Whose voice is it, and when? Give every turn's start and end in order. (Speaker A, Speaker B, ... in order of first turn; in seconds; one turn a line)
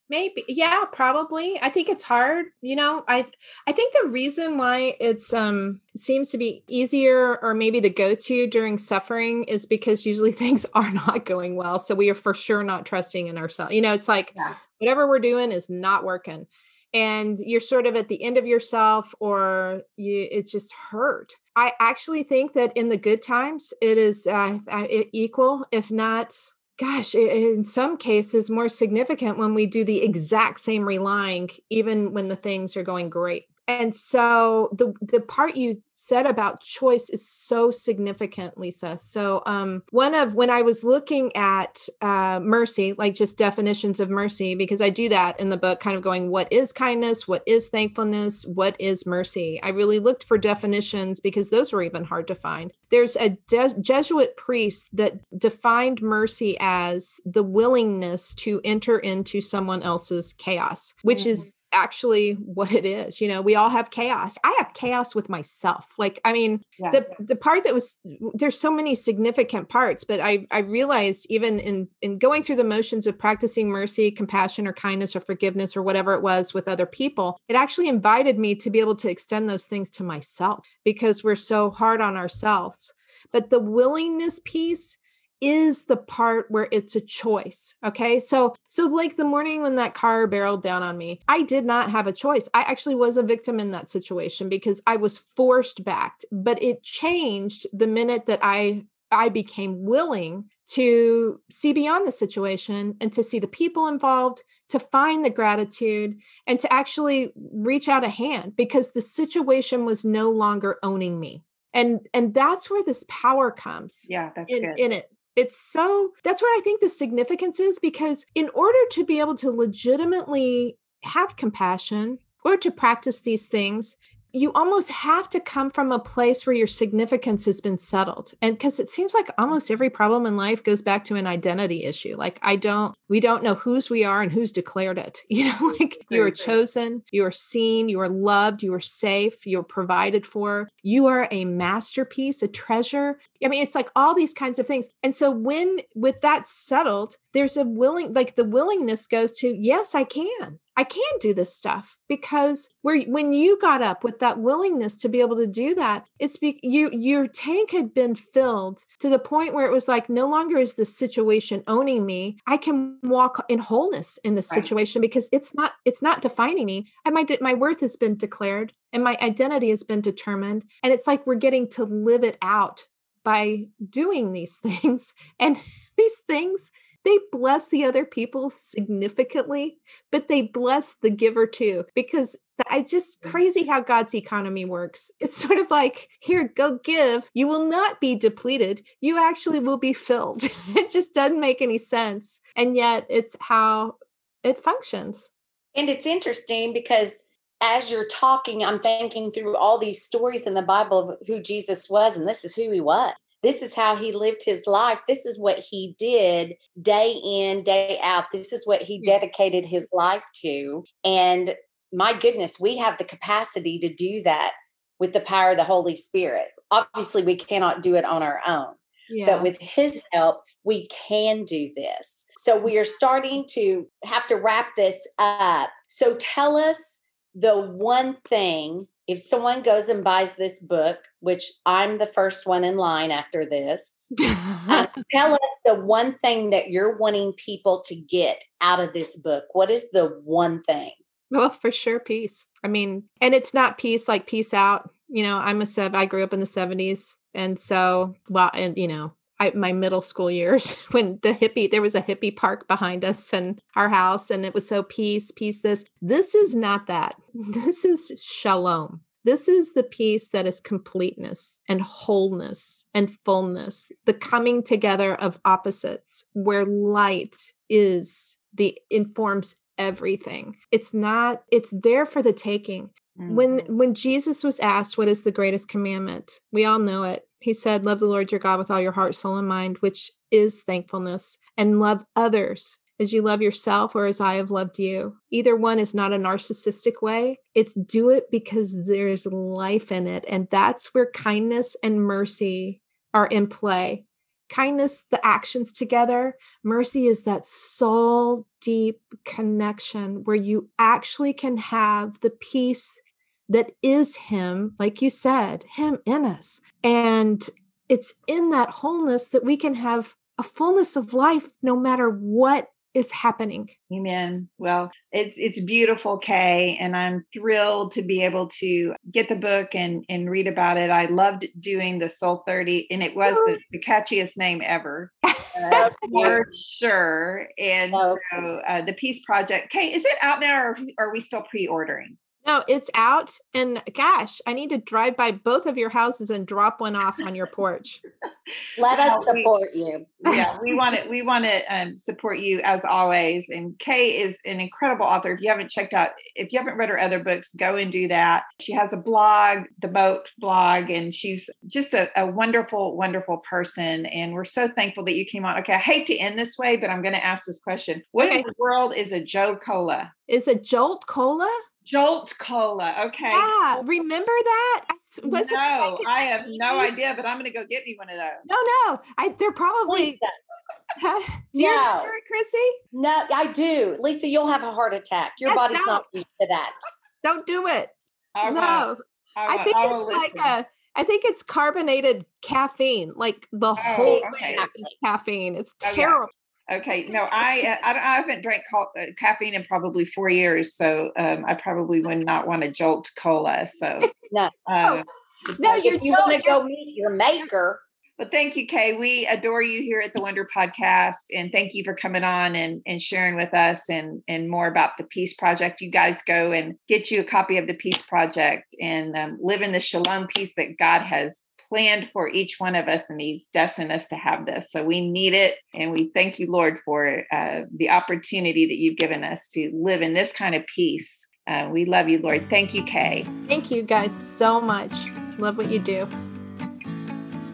Speaker A: 0.1-195.3
Speaker B: 61.1-61.5
Speaker B: 66.8-67.0
Speaker B: 114.1-114.8
Speaker B: 136.1-136.6
Speaker C: 195.8-234.1
Speaker A: 219.1-219.5
Speaker A: 234.2-234.9
Speaker C: 234.7-241.0
Speaker A: 241.3-313.7
Speaker B: 273.2-273.7
Speaker B: 313.9-332.2
Speaker A: 323.2-323.6
Speaker A: 325.3-325.9
Speaker C: 325.6-326.4
Speaker C: 327.9-328.2
Speaker A: 332.4-338.0
Speaker C: 338.8-340.1
Speaker B: 338.9-339.5
Speaker B: 340.2-360.1
Speaker A: 358.2-358.5
Speaker A: 360.3-361.6
Speaker B: 361.9-363.9
Speaker A: 363.3-366.9
Speaker B: 365.2-368.5
Speaker A: 368.5-370.2
Speaker C: 369.9-370.4
Speaker A: 371.0-372.8
Speaker C: 371.6-372.1
Speaker C: 372.9-376.8
Speaker A: 375.4-376.0
Speaker A: 377.2-377.9
Speaker B: 378.4-380.6
Speaker A: 378.4-386.3
Speaker B: 383.8-384.6
Speaker C: 384.0-384.9
Speaker B: 385.8-386.2
Speaker B: 386.7-394.1
Speaker A: 387.4-387.7
Speaker B: 394.7-395.1
Speaker A: 395.6-396.6
Speaker C: 395.6-397.8
Speaker B: 398.2-423.3
Speaker A: 423.5-426.1